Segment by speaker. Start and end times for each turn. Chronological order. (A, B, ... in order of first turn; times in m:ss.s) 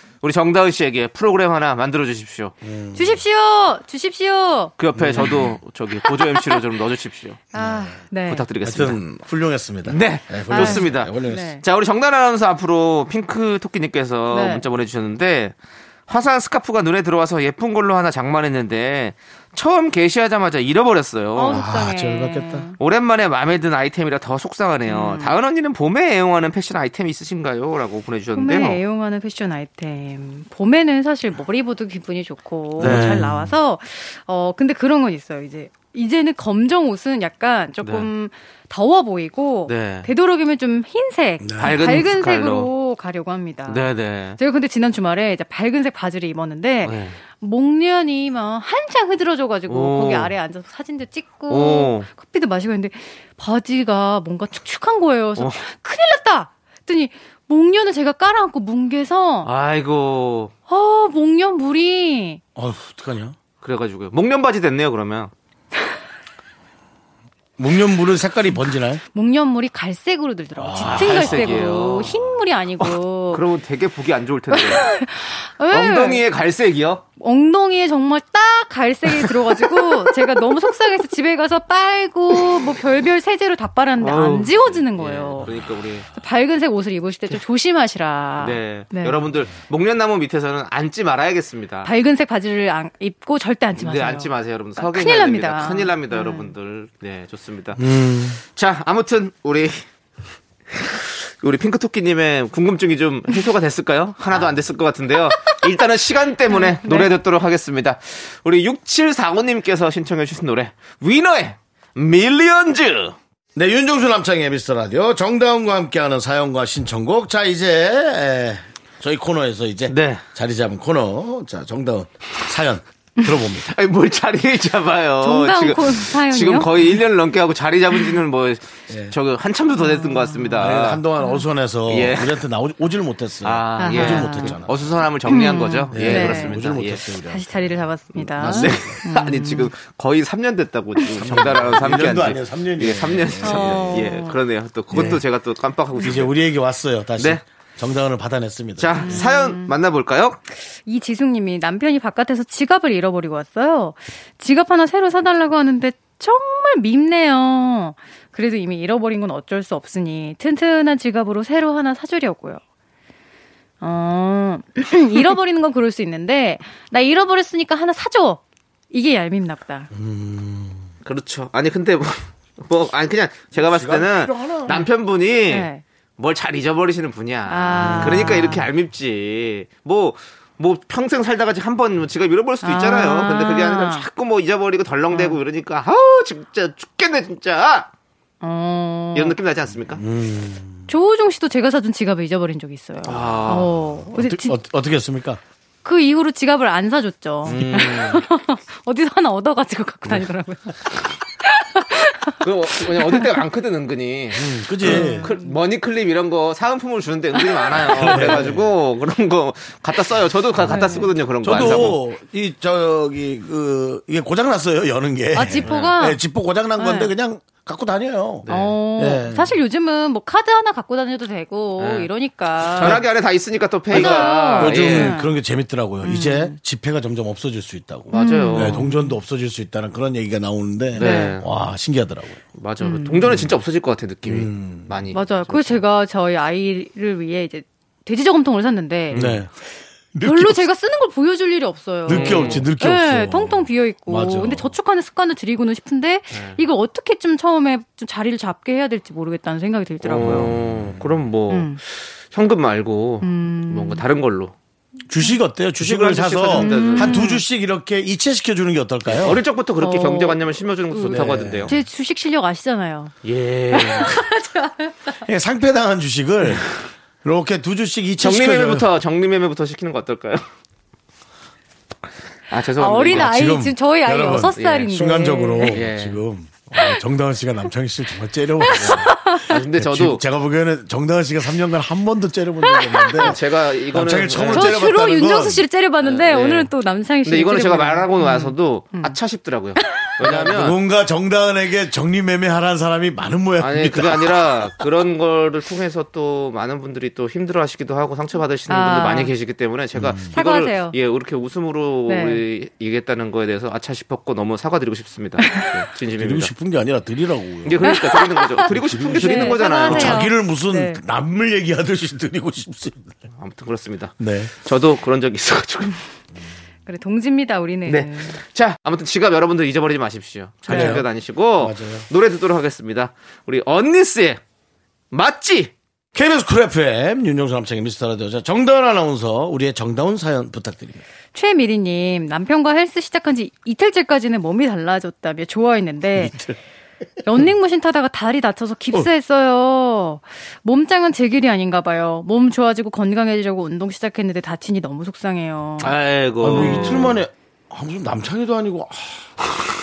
0:00.2-0:02.5 A
0:02.6-0:03.2 B
0:03.0-0:05.3 C
0:04.8-0:07.4 A
0:05.0-0:05.5 B
0:07.5-0:08.5 C
0:07.5-0:08.0 B
0:08.3-0:09.0 A
0:08.6-0:11.6 B
0:09.9-0:15.5 A
0:10.5-0:11.6 C
0:14.3-0:14.6 C
0:16.1-0:21.6 A
0:21.4-0:22.8 C
0:21.4-0:22.7 B
0:22.8-0:28.8 A
0:24.9-0:25.4 C
0:28.4-0:43.9 C
0:32.8-0:33.6 B
0:32.8-0:33.2 A
0:37.8-0:38.1 A
0:39.7-0:40.1 A
0:41.4-0:41.8 B
0:41.6-0:42.7 A
0:43.7-0:44.4 A
0:44.4-0:59.5 C
0:46.8-0:47.2 A
0:49.7-0:50.4 A
0:51.5-0:52.1 A
0:59.4-1:00.5 A
1:00.7-1:02.4 C
1:02.6-1:03.4 B
1:03.6-1:05.3 A
1:07.6-1:09.0 B
1:09.1-1:13.4 C
1:10.6-1:11.9 B
1:10.8-1:12.2 A
1:13.3-1:14.9 A
1:14.5-1:16.2 C
1:15.7-1:17.0 A
1:17.2-1:25.5 C
1:24.0-1:26.1 A
1:26.1-1:29.3 C
1:28.4-1:31.9 A
1:31.8-1:36.5 C
1:33.8-1:37.8 A
1:37.8-1:38.4 B
1:38.4-1:39.8 A
1:40.8-1:53.2 A
1:46.5-1:47.1 C
1:53.6-2:03.7 B
1:59.9-2:00.2 A
2:03.7-2:11.0 A
2:05.2-2:06.9 C
2:08.9-2:09.1 B
2:09.8-2:10.6 C
2:10.6-2:15.1 B
2:11.9-2:12.4 A
2:13.4-2:17.0 A
2:13.8-2:14.6 C
2:15.3-2:16.6 C
2:15.9-2:19.0 B
2:17.2-2:19.7 C
2:18.4-2:26.3 A
2:21.2-2:24.2 B
2:23.4-2:24.4 C
2:24.9-2:25.2 B
2:26.0-2:29.3 B
2:28.8-2:30.4 A
2:29.0-2:29.7 C
2:30.8-2:42.6 C
2:43.8-2:49.9 C
2:49.9-2:50.9 B
2:51.0-3:07.9 A
2:53.6-2:54.8 B
2:55.5-2:55.8 C
2:57.5-2:58.7 C
2:57.8-2:58.4 B
3:02.6-3:04.1 C
3:05.1-3:05.4 C
3:08.4-3:09.4 C
3:09.2-3:10.0 A
3:10.0-3:10.9 B
3:10.9-3:14.6 C
3:13.0-3:13.7 A
3:14.1-3:15.4 B
3:15.8-3:22.3 C
3:17.5-3:17.8 B
3:17.5-3:18.2 A
3:22.4-3:32.0 A
3:23.0-3:23.4 C
3:24.4-3:25.3 B
3:24.8-3:25.5 C
3:27.4-3:28.4 C
3:27.9-3:28.6 B
3:30.6-3:39.6 B
3:30.7-3:31.8 C
3:35.3-3:36.2 C
3:35.7-3:36.0 A
3:36.8-3:37.1 C
3:38.4-3:38.8 A
3:38.5-3:43.0 C
3:41.8-3:42.1 A
3:42.7-3:45.2 A
3:43.9-3:45.4 C
3:43.9-3:52.4 B
3:46.0-3:46.6 C
3:48.1-3:48.8 A
3:48.1-3:49.2 C
3:51.0-3:51.4 A
3:51.0-3:51.4 C
3:52.6-3:55.8 A
3:52.8-3:53.3 C
3:54.3-3:54.9 B
3:55.1-3:59.3 C
3:59.1-3:59.4 A
3:59.1-3:59.5 B
4:00.2-4:00.6 B
4:00.2-4:10.5 C
4:02.1-4:04.7 B
4:02.1-4:02.7 A
4:06.3-4:06.6 A
4:10.0-4:14.5 A
4:11.5-4:11.8 C
4:13.2-4:14.0 C
4:15.1-4:19.4 B
4:15.8-4:17.2 A
4:16.6-4:17.4 C
4:19.1-4:21.7 A
4:19.8-4:23.1 C
4:21.1-4:21.8 B
4:23.2-4:24.1 A
4:23.7-4:25.0 C
4:25.3-4:26.7 B
4:27.2-4:28.9 B
4:28.2-4:30.4 A
4:32.5-4:33.3 A
4:32.8-4:35.8 C
4:33.1-4:43.4 B
4:34.5-4:34.9 A
4:35.6-4:36.2 A
4:38.6-4:39.5 C
4:38.8-4:40.2 A
4:42.6-4:43.4 C
4:43.2-4:44.8 A
4:43.9-4:45.7 B
4:44.5-4:49.2 C
4:46.0-4:46.7 A
4:47.2-4:50.8 A
4:49.8-4:50.1 C
4:50.2-4:54.7 B
4:53.6-5:06.5 A
4:58.7-4:59.3 C
5:00.0-5:00.3 B
5:00.3-5:01.0 C
5:02.1-5:02.4 C
5:06.2-5:08.1 B
5:07.6-5:10.3 A
5:07.8-5:11.0 C
5:08.7-5:13.2 B
5:13.4-5:16.0 A
5:14.2-5:14.5 B
5:16.9-5:18.4 C
5:17.9-5:24.4 A
5:20.7-5:21.0 C
5:20.7-5:21.1 B
5:21.6-5:22.1 B
5:25.1-5:25.7 A
5:26.2-5:31.0 B
5:31.3-5:36.4 C
5:36.2-5:36.5 B
5:37.2-5:46.0 C
5:45.8-5:47.2 A
5:46.4-5:49.5 B
5:46.5-5:47.1 C